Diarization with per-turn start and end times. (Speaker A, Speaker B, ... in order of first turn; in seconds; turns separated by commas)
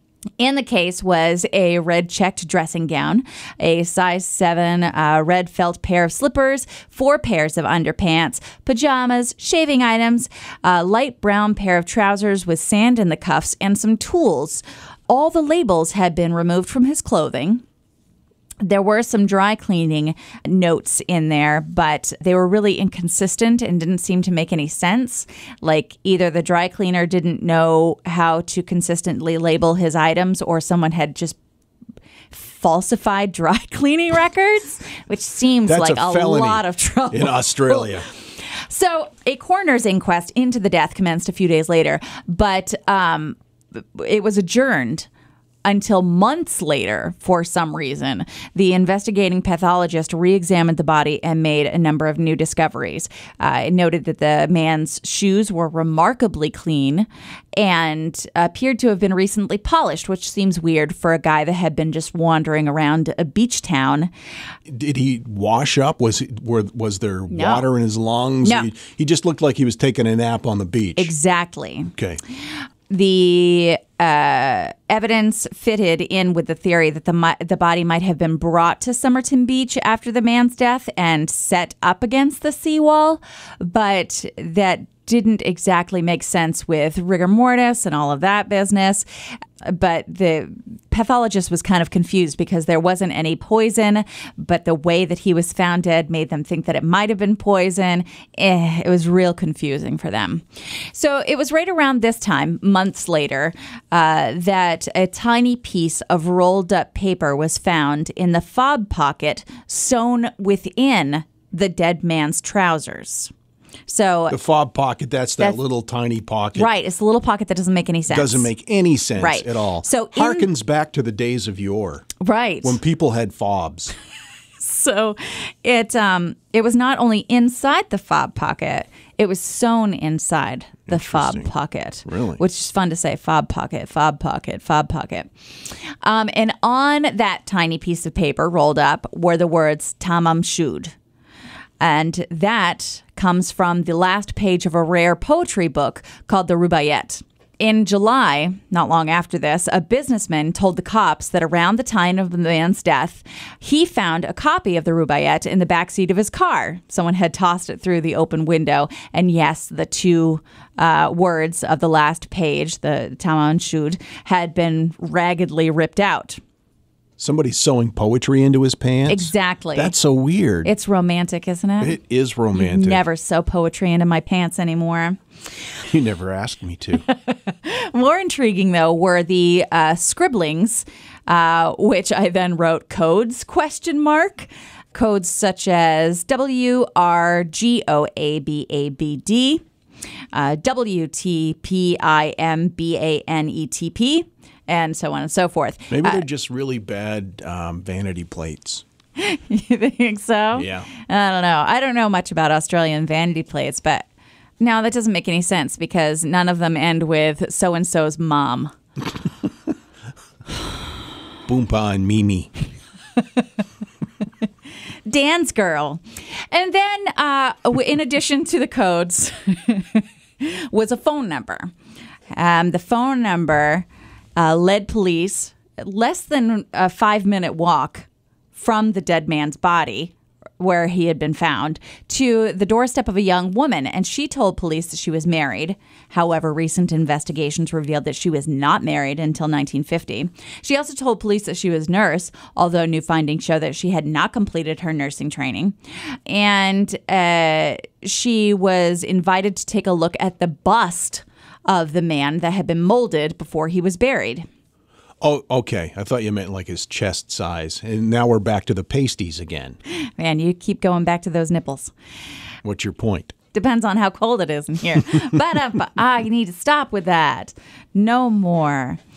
Speaker A: 0.4-17.6, Speaker A: 18.6-31.4, Speaker A: 32.3-45.1, Speaker B: 35.7-38.1, Speaker A: 45.6-64.1, Speaker B: 64.7-71.1, Speaker A: 67.3-67.7, Speaker A: 68.4-68.7, Speaker A: 71.0-71.9, Speaker A: 72.9-89.1, Speaker A: 89.6-113.3, Speaker A: 113.9-114.4, Speaker B: 114.3-116.7, Speaker A: 116.5-118.5, Speaker B: 118.1-123.9, Speaker A: 119.2-120.5, Speaker A: 122.2-122.8, Speaker A: 124.6-140.9, Speaker B: 130.9-131.5, Speaker B: 132.1-132.4, Speaker A: 141.8-166.4, Speaker B: 167.2-170.7, Speaker A: 169.1-169.9, Speaker A: 170.7-172.0, Speaker B: 171.8-173.0, Speaker A: 172.5-175.2, Speaker B: 175.9-177.1, Speaker A: 177.0-189.7, Speaker A: 190.3-196.2, Speaker B: 195.9-198.8, Speaker A: 199.2-204.1, Speaker B: 200.6-200.9, Speaker A: 204.6-208.7, Speaker B: 211.5-212.5, Speaker A: 215.1-221.7, Speaker A: 222.3-245.8, Speaker A: 246.3-254.5, Speaker B: 255.2-259.8, Speaker A: 259.9-261.9, Speaker B: 262.6-263.4, Speaker A: 263.5-269.0